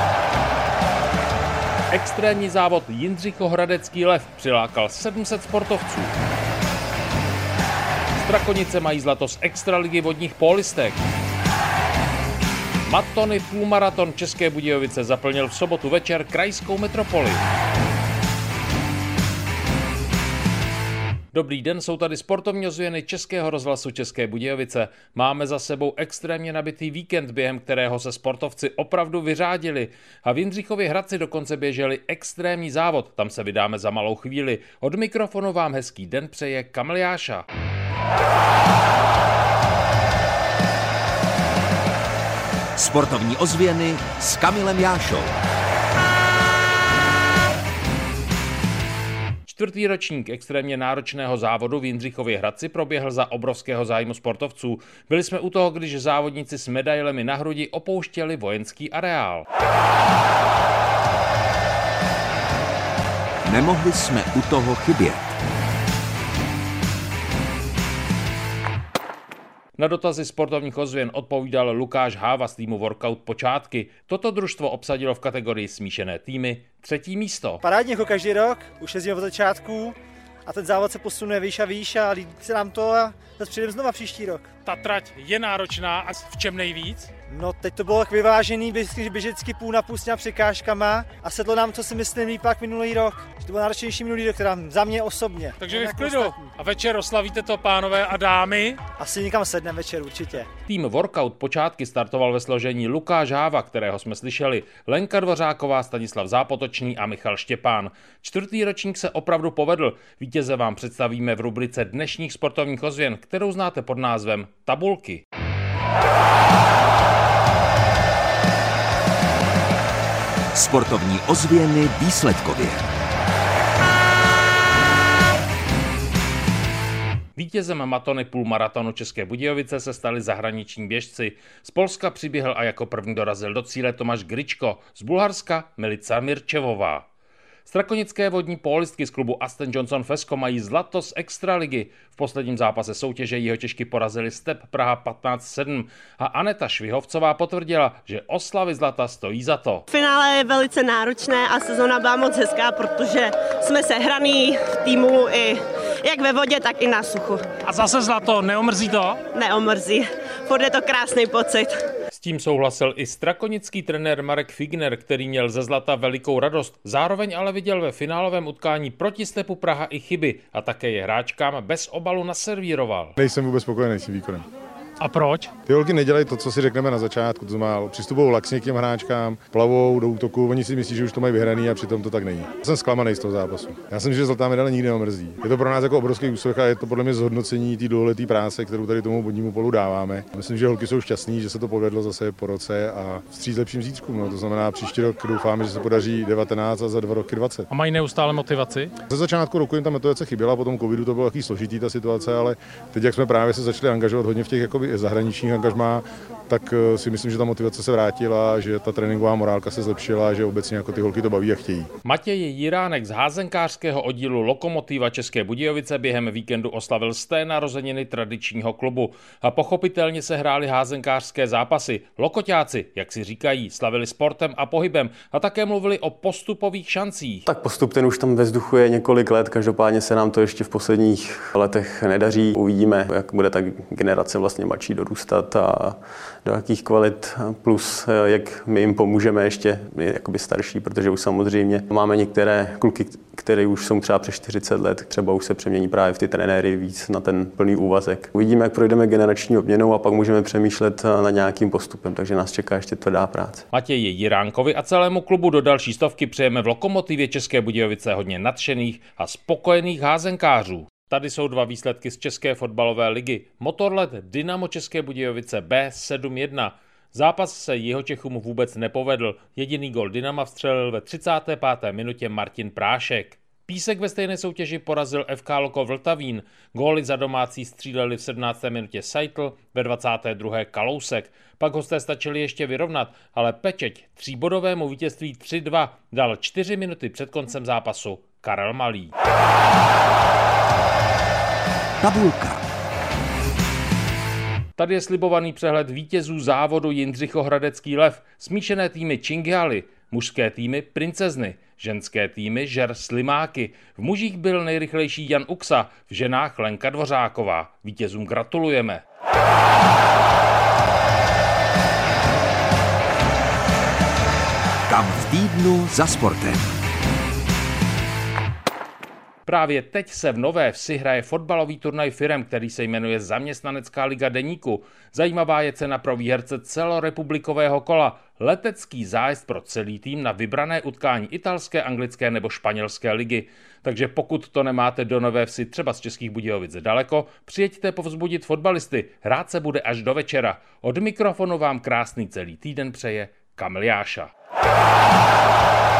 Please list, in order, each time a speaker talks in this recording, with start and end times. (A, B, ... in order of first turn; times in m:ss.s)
0:01.9-0:06.2 A
0:08.2-0:11.0 A
0:12.8-0:17.4 A
0:21.3-0:37.4 A
0:42.8-0:45.3 B
0:49.4-0:59.4 A
1:03.4-1:05.4 B
1:09.8-1:17.6 A
1:17.6-1:24.5 C
1:24.7-1:27.0 A
1:24.7-1:27.0 D
1:27.3-1:36.4 C
1:35.6-1:38.8 D
1:39.0-1:40.5 C
1:40.6-1:55.2 A
2:00.5-2:02.8 B
2:07.4-2:17.0 A
2:17.6-2:29.8 A
2:29.9-2:37.5 E
2:37.6-2:39.2 D
2:39.3-2:41.8 E
2:42.1-2:53.1 A
2:53.2-2:54.5 F
2:55.0-2:55.5 D
2:55.6-3:17.7 F
3:17.7-3:18.9 D
3:19.1-3:31.9 F
3:32.0-3:47.5 A
3:47.5-4:13.6 G
4:13.7-4:49.1 A
4:52.0-4:52.6 B
4:54.8-5:09.0 A
5:14.9-5:16.7 B
5:19.4-5:44.3 A